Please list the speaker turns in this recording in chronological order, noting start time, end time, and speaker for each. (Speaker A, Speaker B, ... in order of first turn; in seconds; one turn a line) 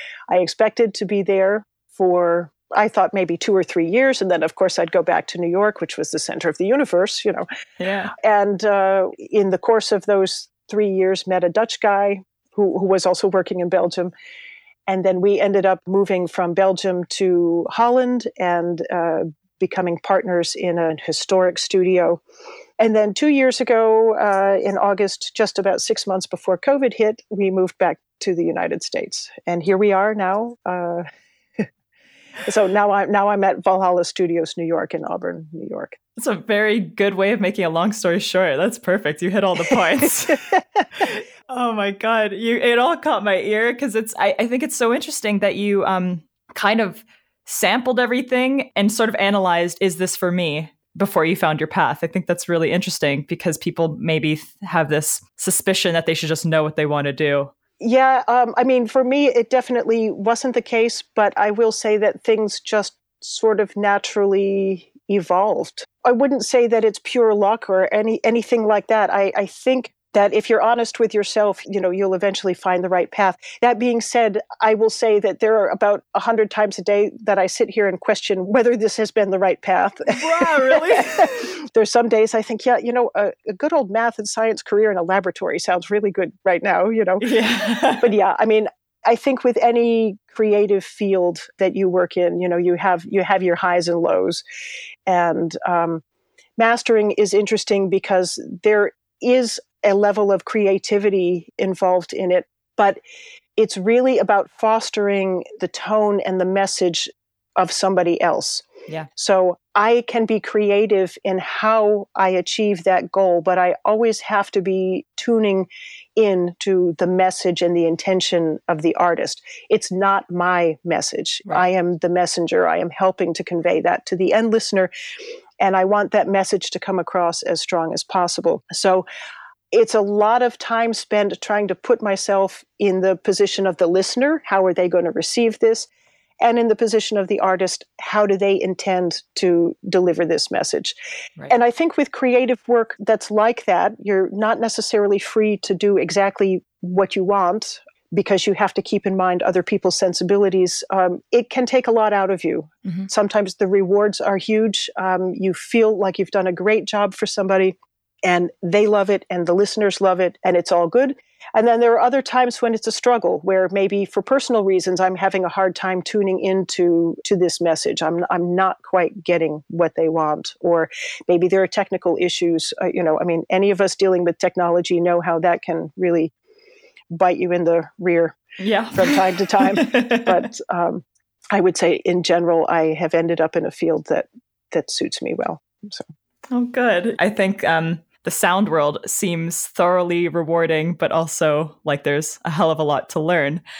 Speaker A: 0.3-7.5
Speaker B: 7.8-8.1
Speaker A: 8.1-14.1
Speaker A: 14.9-22.2
Speaker A: 22.8-31.1
Speaker A: 32.5-36.0
Speaker B: 36.2-57.5
Speaker A: 57.8-87.3
Speaker B: 80.1-81.5
Speaker B: 87.2-88.1
Speaker A: 88.0-94.4
Speaker A: 95.1-96.0
Speaker A: 96.6-103.0
Speaker A: 103.6-124.9
Speaker A: 125.6-129.1
Speaker A: 129.7-135.9
Speaker A: 136.4-141.0
Speaker A: 141.5-176.3
Speaker A: 177.1-178.4
Speaker B: 178.6-180.4
Speaker A: 178.9-186.1
Speaker B: 186.5-193.6